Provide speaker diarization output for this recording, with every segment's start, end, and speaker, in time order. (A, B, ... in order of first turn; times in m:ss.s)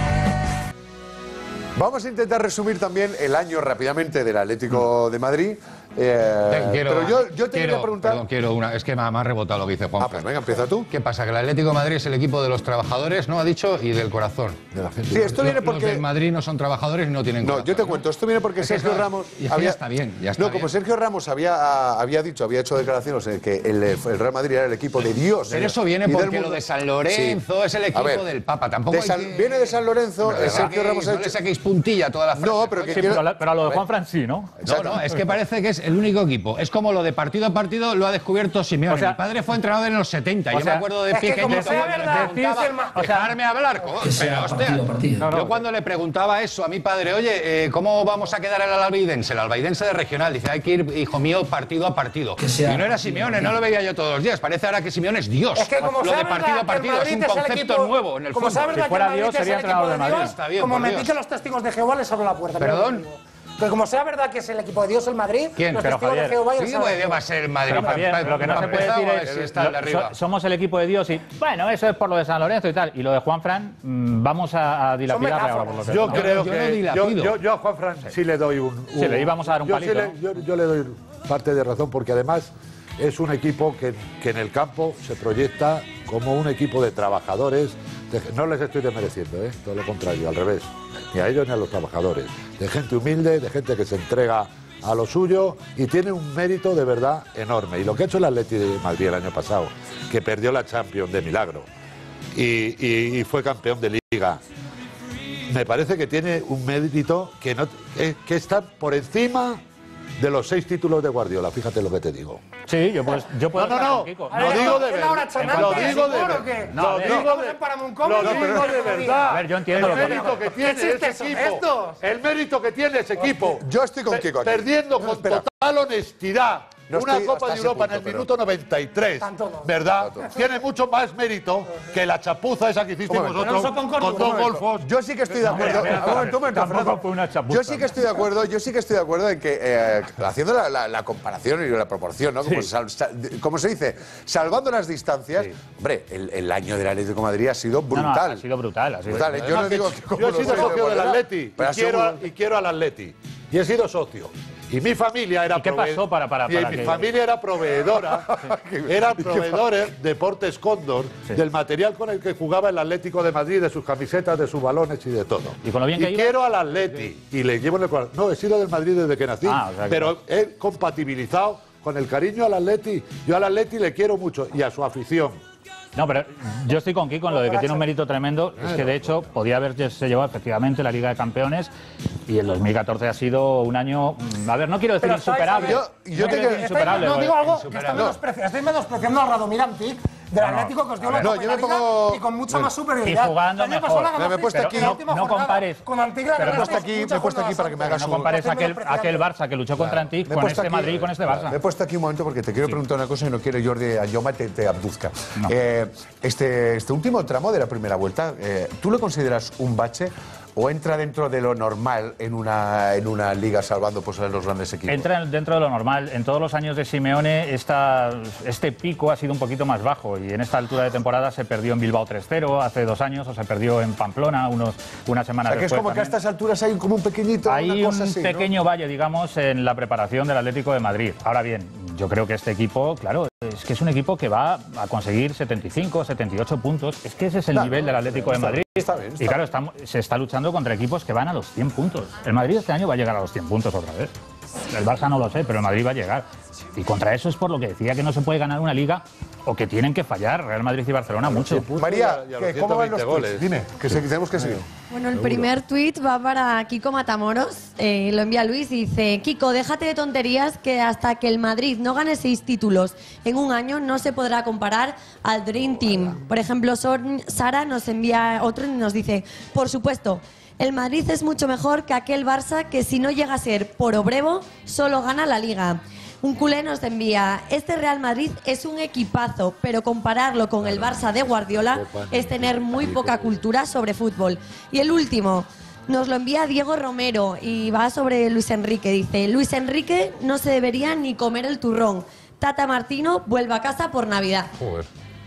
0:01.8-0:08.2 A
0:06.5-0:10.3 B
0:10.0-0:10.9 A
0:10.9-0:18.0 B
0:15.1-0:16.1 A
0:17.4-0:19.8 A
0:18.6-0:20.7 B
0:20.3-0:27.4 A
0:25.5-0:29.6 B
0:27.9-0:28.3 A
0:28.9-0:31.4 A
0:30.2-0:33.0 B
0:32.4-0:33.8 A
0:32.8-0:34.6 C
0:34.6-0:35.2 A
0:34.6-0:58.9 B
0:38.9-0:39.2 C
0:40.5-0:40.9 C
0:41.1-0:43.2 D
0:41.4-0:43.3 C
0:45.2-0:45.6 C
0:55.5-1:07.2 D
0:58.7-1:00.4 C
1:00.1-1:01.1 B
1:02.6-1:03.0 B
1:05.6-1:05.9 B
1:05.8-1:06.4 C
1:06.5-1:10.2 B
1:07.7-1:16.3 C
1:15.1-1:16.1 D
1:15.9-1:41.7 E
1:16.1-1:17.4 B
1:19.0-1:20.1 C
1:42.3-1:44.4 E
1:45.5-1:49.6 E
1:50.2-1:52.4 E
1:52.6-1:54.9 C
1:53.5-2:14.9 E
1:54.3-2:02.0 D
1:55.4-1:56.2 C
1:56.7-1:57.3 C
1:58.2-1:59.0 A
1:59.3-2:00.4 C
2:03.6-2:05.4 A
2:06.9-2:08.3 A
2:09.2-2:09.7 D
2:10.0-2:10.3 A
2:13.1-2:13.6 A
2:13.4-2:14.5 D
2:14.1-2:28.4 A
2:15.4-2:16.3 E
2:15.4-2:18.0 C
2:27.9-2:30.7 C
2:29.0-2:32.2 A
2:29.5-2:55.4 E
2:35.5-2:37.1 C
2:38.1-2:39.7 A
2:45.6-2:46.3 C
2:49.4-2:50.2 C
2:56.0-3:01.7 C
2:57.3-2:57.8 D
3:02.3-3:07.4 C
3:05.0-3:19.2 D
3:05.5-3:07.1 A
3:07.4-3:08.1 B
3:10.4-3:11.3 C
3:11.2-3:12.7 A
3:13.0-3:16.9 C
3:14.1-3:15.0 A
3:16.4-3:18.3 A
3:17.9-3:21.6 C
3:19.8-3:35.1 A
3:34.9-3:46.2 C
3:45.5-3:48.5 A
3:47.5-4:04.1 C
3:57.5-3:59.4 A
4:04.7-4:11.7 C
4:11.2-4:14.6 E
4:11.8-4:14.6 A
4:14.9-4:54.5 F
4:40.6-4:43.4 E
4:54.6-4:54.9 B